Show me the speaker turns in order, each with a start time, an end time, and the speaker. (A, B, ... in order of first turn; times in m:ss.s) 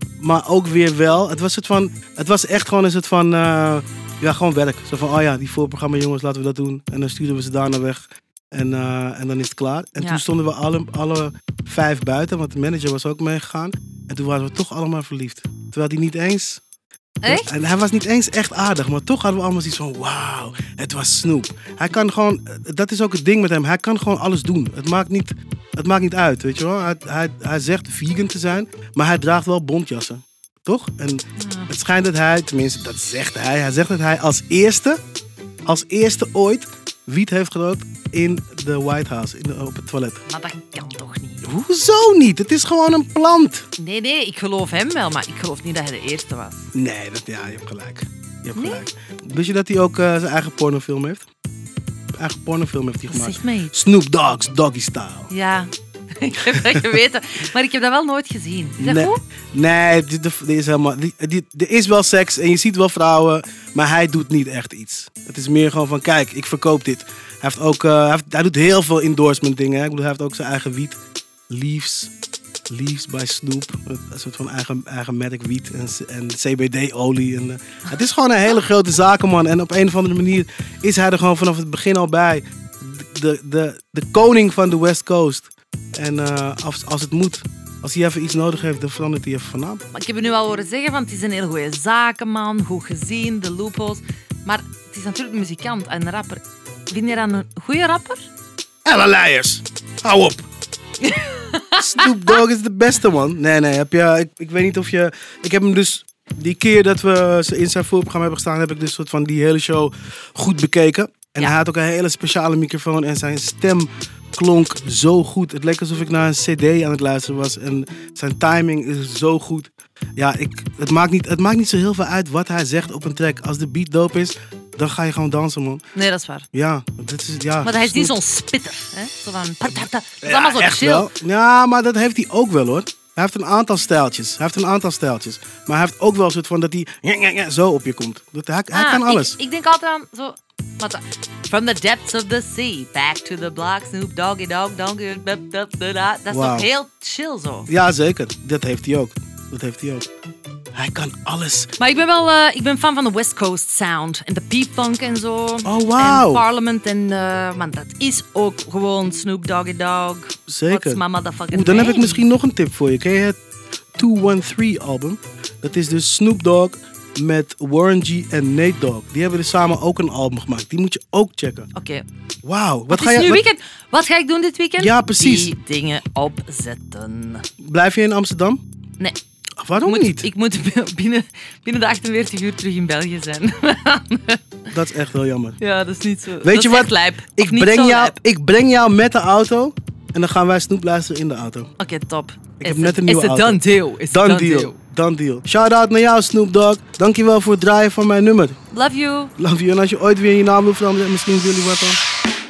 0:00.2-0:16.6 A
0:17.2-0:35.0 A
0:31.4-0:31.7 B
0:35.6-0:40.2 A
0:40.2-0:41.5 B
0:41.4-0:43.7 A
0:43.8-0:46.7 B
0:46.7-0:51.2 A
0:48.5-0:48.8 B
0:52.1-0:55.3 A
0:53.1-0:53.7 B
0:55.3-0:59.2 B
0:58.8-1:11.0 A
1:11.5-1:12.1 A
1:12.7-1:29.8 A
1:29.9-1:38.2 B
1:38.8-1:40.4 A
1:41.0-1:42.4 B
1:41.8-2:05.8 A
2:05.9-2:06.4 B
2:06.5-2:08.1 A
2:07.6-2:11.1 B
2:09.6-2:19.4 A
2:18.7-2:27.7 B
2:26.3-2:26.7 A
2:27.7-2:30.0 A
2:30.7-2:31.7 A
2:31.8-2:42.2 B
2:35.6-2:36.4 A
2:40.5-2:43.4 A
2:44.0-2:51.7 A
2:51.7-2:52.0 B
2:52.4-2:53.4 A
2:52.9-2:57.4 B
2:54.8-2:55.5 A
2:57.6-2:58.6 A
2:59.6-3:00.3 A
2:59.8-3:04.4 B
3:04.7-3:05.6 A
3:05.6-3:08.2 B
3:06.4-3:11.7 A
3:11.8-3:14.8 B
3:12.6-3:18.6 A
3:18.7-3:19.3 B
3:19.4-3:22.0 A